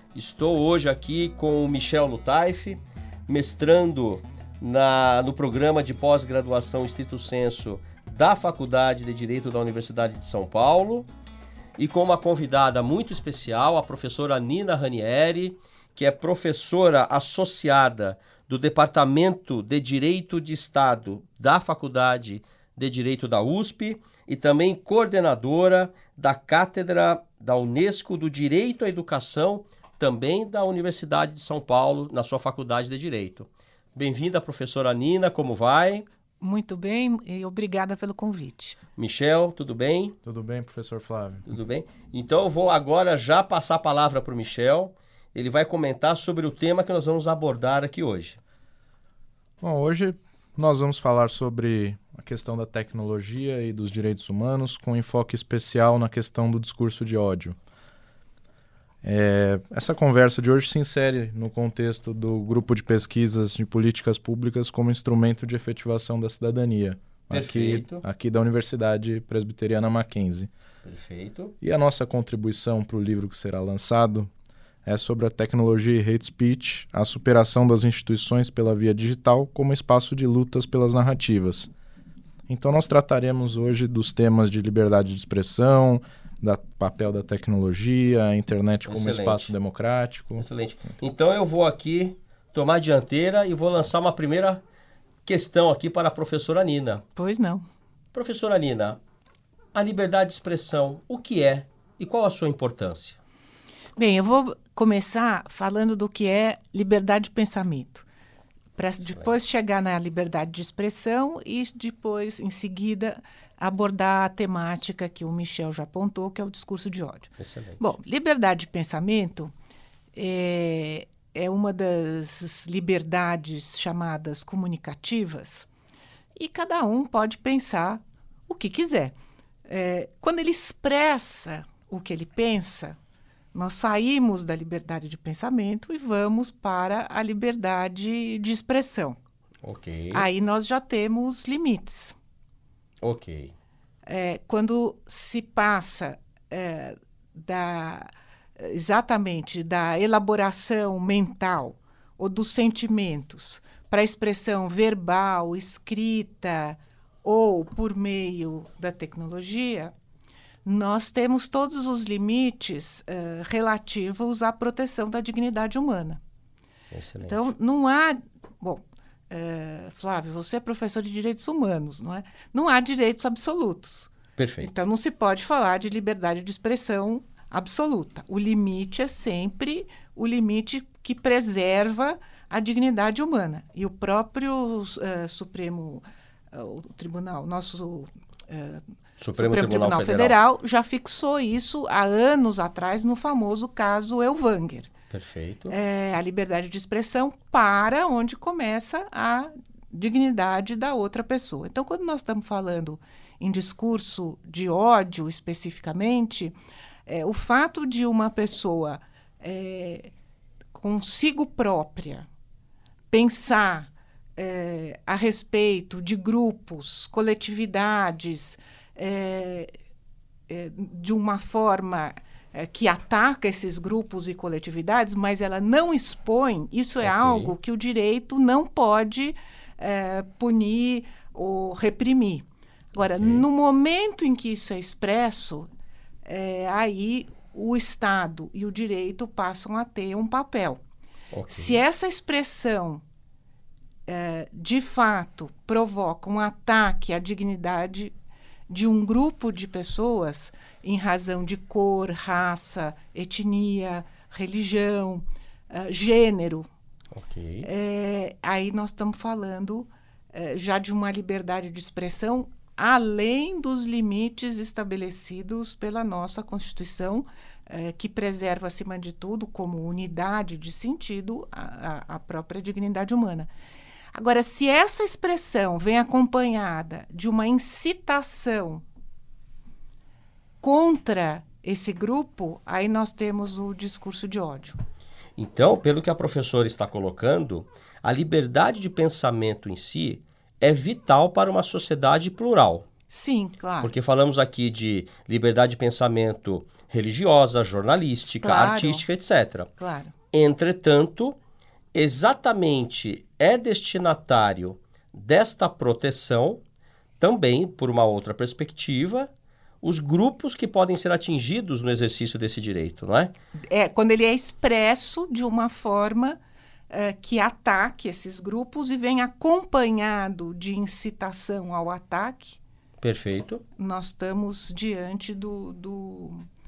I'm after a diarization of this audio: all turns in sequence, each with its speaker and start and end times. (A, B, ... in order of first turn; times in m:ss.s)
0:00.1-0:11.1 A
0:11.8-0:36.1 A
0:36.4-0:38.8 B
0:39.0-0:40.2 A
0:40.2-0:41.5 C
0:41.5-0:48.4 A
0:49.6-0:57.6 C
0:59.0-1:10.5 C
1:07.3-1:08.0 A
1:10.8-1:11.5 A
1:11.6-1:14.3 C
1:14.8-1:21.7 C
1:22.5-1:30.4 C
1:28.8-1:29.5 A
1:30.4-1:34.6 A
1:35.3-1:37.0 A
1:37.2-1:37.6 B
1:38.1-1:39.0 A
1:39.8-1:43.2 A
1:44.0-1:48.1 B
1:48.8-1:59.5 B
1:49.0-1:49.3 A
1:57.4-1:57.9 A
2:00.2-2:05.7 B
2:06.4-2:09.2 B
2:09.7-2:13.0 B
2:13.5-2:19.2 B
2:19.6-2:20.3 A
2:20.1-2:22.2 B
2:23.0-2:23.5 A
2:24.1-2:39.9 B
2:40.6-2:46.2 B
2:46.9-2:47.5 A
2:47.3-3:08.8 B
2:54.4-2:54.7 A
3:09.2-3:10.4 A
3:09.4-3:14.9 B
3:15.1-3:15.8 A
3:15.7-3:26.6 B
3:27.1-3:30.1 B
3:30.8-3:32.3 B
3:33.1-3:39.7 B
3:40.5-3:55.7 B
3:47.0-3:47.6 A
3:53.0-3:53.5 A
3:56.3-4:00.8 B
4:01.3-4:01.8 A
4:01.5-4:03.0 B
4:04.1-4:08.1 B
4:08.7-4:16.7 B
4:17.1-4:17.7 A
4:17.6-4:33.5 B
4:34.2-4:38.8 B
4:40.6-4:44.8 B
4:45.4-4:52.8 A
4:53.1-4:53.9 B
4:53.8-4:59.7 A
4:58.2-4:59.1 B
4:59.8-5:00.1 B
5:00.3-5:01.4 A
5:01.9-5:06.6 A
5:07.2-5:09.3 A
5:09.8-5:13.3 A
5:13.7-5:16.4 B
5:16.9-5:22.6 B
5:23.0-5:23.6 A
5:23.8-5:26.5 B